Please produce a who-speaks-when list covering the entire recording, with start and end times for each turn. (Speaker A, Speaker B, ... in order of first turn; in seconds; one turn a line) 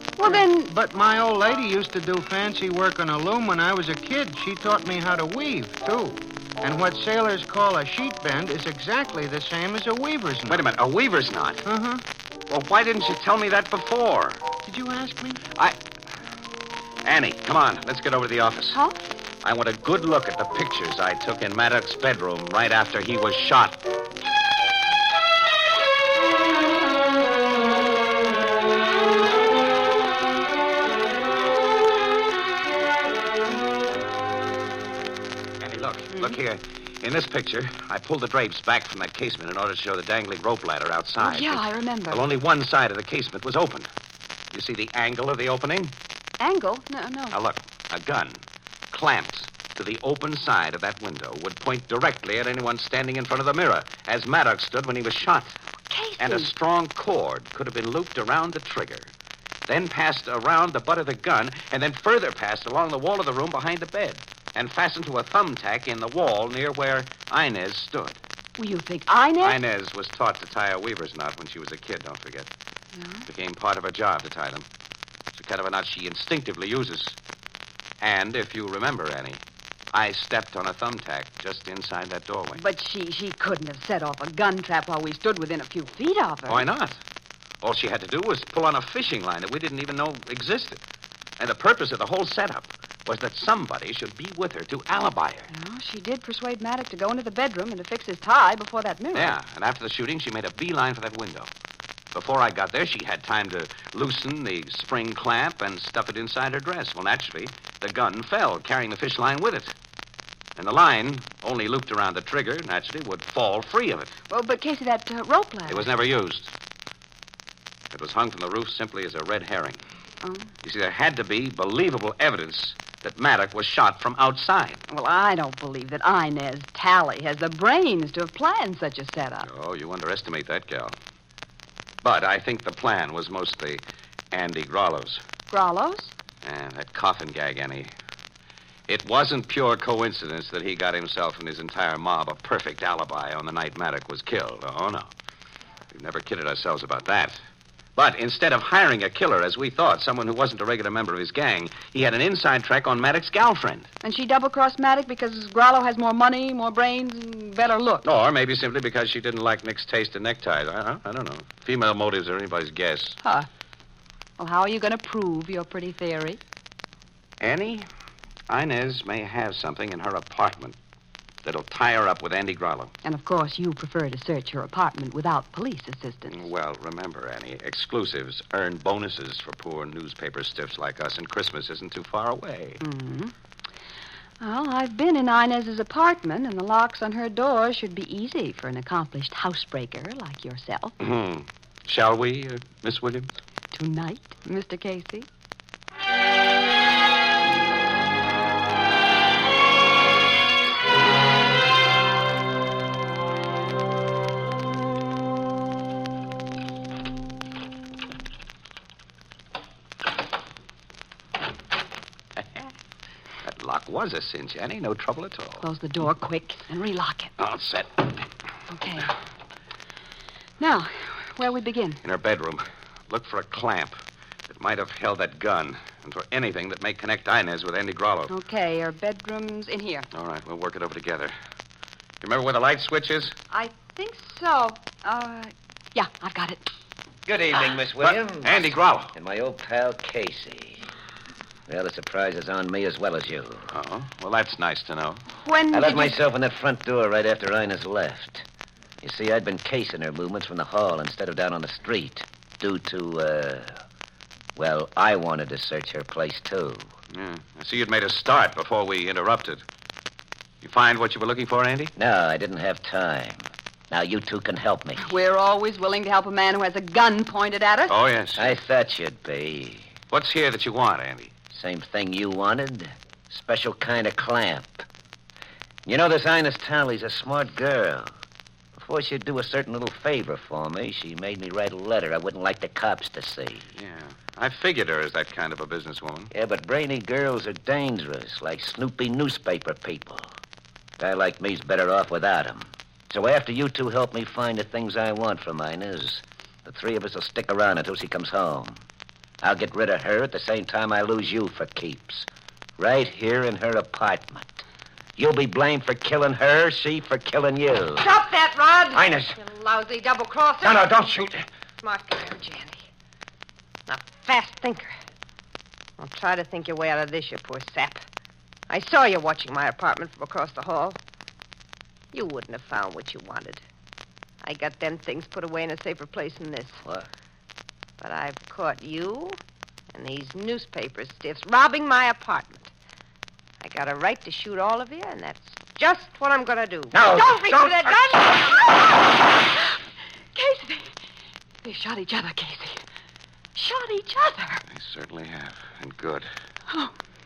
Speaker A: 0.2-0.7
Speaker B: 0.2-10.7
Speaker C: 10.5-11.6
Speaker B: 11.7-12.0
Speaker C: 12.5-14.4
Speaker B: 14.6-15.4
Speaker C: 17.0-18.8
Speaker A: 18.7-19.0
Speaker C: 19.4-23.8
Speaker C: 35.6-43.9
Speaker A: 36.1-36.4
Speaker A: 41.2-42.3
Speaker C: 44.5-45.9
Speaker A: 46.4-47.4
Speaker C: 47.3-55.5
Speaker A: 55.9-56.5
Speaker C: 56.2-59.1
Speaker C: 59.7-68.2
Speaker A: 68.6-69.6
Speaker C: 69.4-72.5
Speaker A: 73.0-73.2
Speaker C: 73.3-74.7
Speaker C: 75.3-77.2
Speaker C: 78.0-79.4
Speaker C: 79.9-82.6
Speaker A: 82.6-86.7
Speaker C: 86.5-87.0
Speaker C: 87.6-90.8
Speaker C: 91.4-95.5
Speaker A: 95.5-99.3
Speaker C: 99.1-101.5
Speaker C: 102.1-109.7
Speaker C: 110.6-114.1
Speaker A: 114.3-115.9
Speaker C: 115.7-116.5
Speaker C: 117.9-119.8
Speaker A: 120.2-120.5
Speaker C: 120.6-124.8
Speaker A: 124.9-129.5
Speaker C: 129.4-131.0
Speaker C: 132.0-135.2
Speaker A: 135.5-136.1
Speaker C: 136.4-137.9
Speaker C: 138.9-145.1
Speaker C: 145.9-147.4
Speaker C: 148.0-153.9
Speaker A: 154.0-158.0
Speaker C: 158.0-163.2
Speaker A: 163.2-163.5
Speaker A: 164.4-166.4
Speaker C: 167.4-167.8
Speaker C: 168.5-170.8
Speaker C: 171.4-172.9
Speaker A: 173.0-176.5
Speaker C: 176.3-182.8
Speaker A: 182.8-183.3
Speaker A: 184.4-190.9
Speaker C: 191.0-193.3
Speaker A: 193.7-195.3
Speaker C: 213.4-215.6
Speaker A: 215.6-217.3
Speaker C: 217.4-218.2
Speaker A: 218.7-219.1
Speaker A: 220.6-222.0
Speaker C: 222.0-224.0
Speaker C: 224.5-228.3
Speaker A: 228.3-230.1
Speaker C: 230.1-231.3
Speaker C: 232.2-233.3
Speaker A: 233.5-236.6
Speaker D: 237.2-240.9
Speaker C: 238.0-239.1
Speaker D: 241.7-243.7
Speaker C: 243.7-245.2
Speaker A: 245.4-246.2
Speaker D: 245.7-248.4
Speaker D: 249.0-253.8
Speaker D: 254.6-256.9
Speaker C: 257.1-259.6
Speaker C: 260.6-261.9
Speaker D: 262.0-265.1
Speaker A: 265.0-267.9
Speaker C: 267.9-268.5
Speaker D: 268.4-269.9
Speaker C: 270.1-271.3
Speaker D: 271.5-274.8
Speaker D: 275.9-278.1
Speaker D: 278.8-283.7
Speaker C: 283.8-286.3
Speaker D: 286.3-290.3
Speaker D: 291.0-298.8
Speaker D: 299.4-304.6
Speaker D: 305.2-308.1
Speaker E: 308.0-310.9
Speaker D: 308.9-309.4
Speaker D: 310.6-311.4
Speaker E: 311.8-312.8
Speaker E: 313.9-314.9
Speaker E: 316.0-318.0
Speaker E: 318.7-321.0
Speaker E: 322.1-323.6
Speaker E: 324.4-326.8
Speaker E: 328.0-329.4
Speaker E: 329.9-332.7
Speaker E: 333.6-338.9
Speaker D: 336.9-338.6
Speaker A: 340.3-340.9
Speaker A: 341.6-342.8
Speaker A: 343.5-344.6
Speaker C: 344.7-346.3